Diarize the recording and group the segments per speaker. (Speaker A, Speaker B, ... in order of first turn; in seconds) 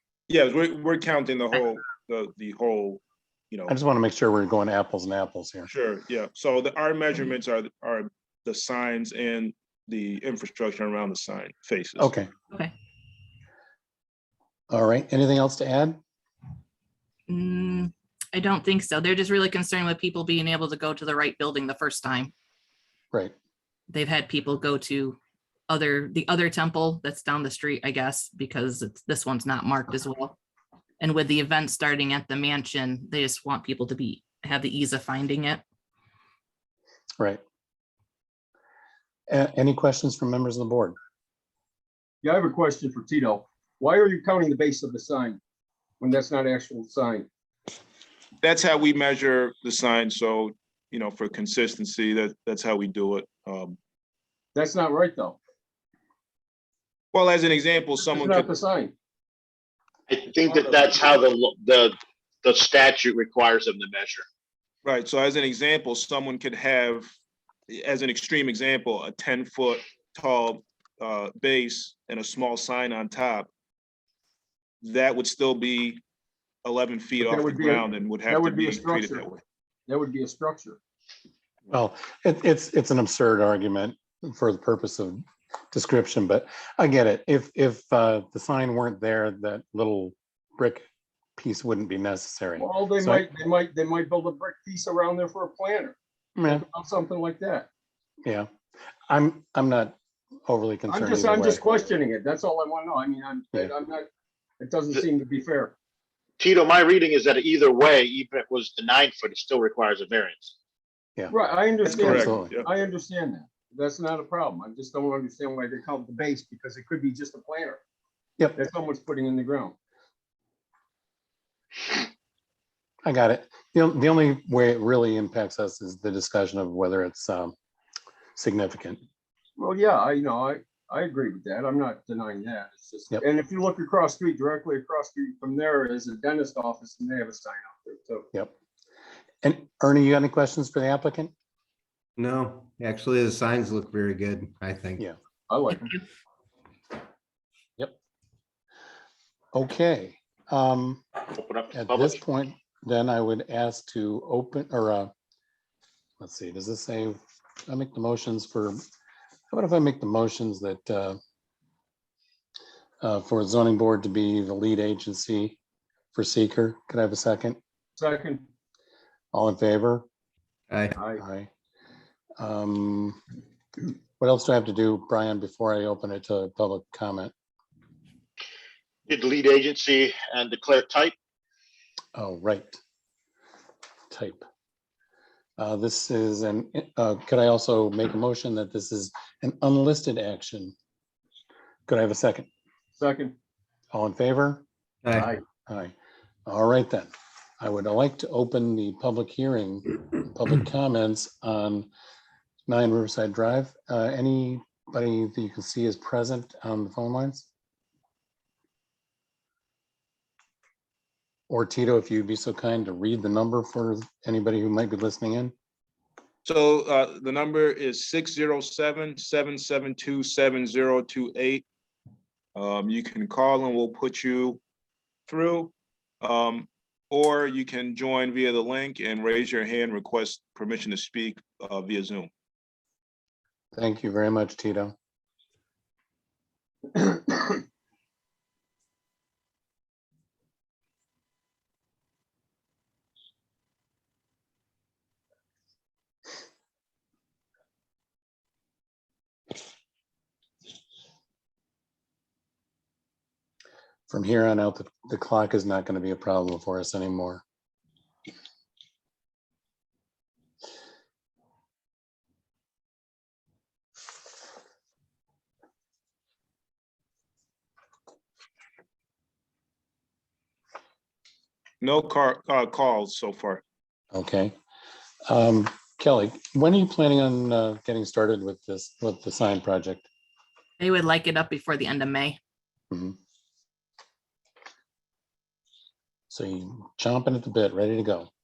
Speaker A: 0.3-3.7, 5.7-12.1, 48.4-53.8, 57.1-58.5, 64.8-67.1, 67.7-73.5, 74.8-76.0, 76.6-79.4, 111.9-112.6, 216.4-221.7, 222.5-224.6, 225.3-232.3, 271.8-273.6
Speaker B: 3.7-5.7, 12.0-12.3, 14.7-16.0, 39.3-41.0, 81.7-90.8, 91.4-93.2, 96.4-96.6, 99.1-101.6, 111.2-112.6, 123.0-127.5, 128.3-129.0, 139.4-141.3, 149.5-151.0, 151.7-155.1, 156.2-158.8, 159.5-161.2, 163.0-165.6, 166.1-167.6, 169.3-170.1, 171.2-171.5, 172.4-173.2, 174.2-177.3, 182.1-182.8, 184.1-184.4, 185.6-190.7, 191.9-192.5, 193.9-194.6, 195.7-195.9, 196.4-201.9, 202.7-207.5, 211.5-215.5, 233.7-234.9, 254.1-257.4, 274.1-274.5, 275.3-280.1, 282.9-283.2, 286.3-288.3
Speaker C: 17.3-22.3, 23.9-25.2, 25.7-30.4, 31.0-35.6, 145.7-146.0, 280.8-282.4
Speaker D: 42.2-45.4, 46.0-47.3, 54.5-55.4, 58.0-58.9, 77.2-79.3, 79.9-80.8, 92.6-97.7, 100.9-104.0, 104.6-105.7, 111.3-117.8, 118.5-119.7, 129.6-138.3, 145.5-146.0, 168.0-168.4, 170.9-171.2, 193.0-193.3, 195.1-195.4
Speaker E: 60.1-64.2, 106.4-110.5, 151.3-152.2, 179.1-181.1
Speaker F: 142.2-145.0, 170.7-171.0, 195.0-195.3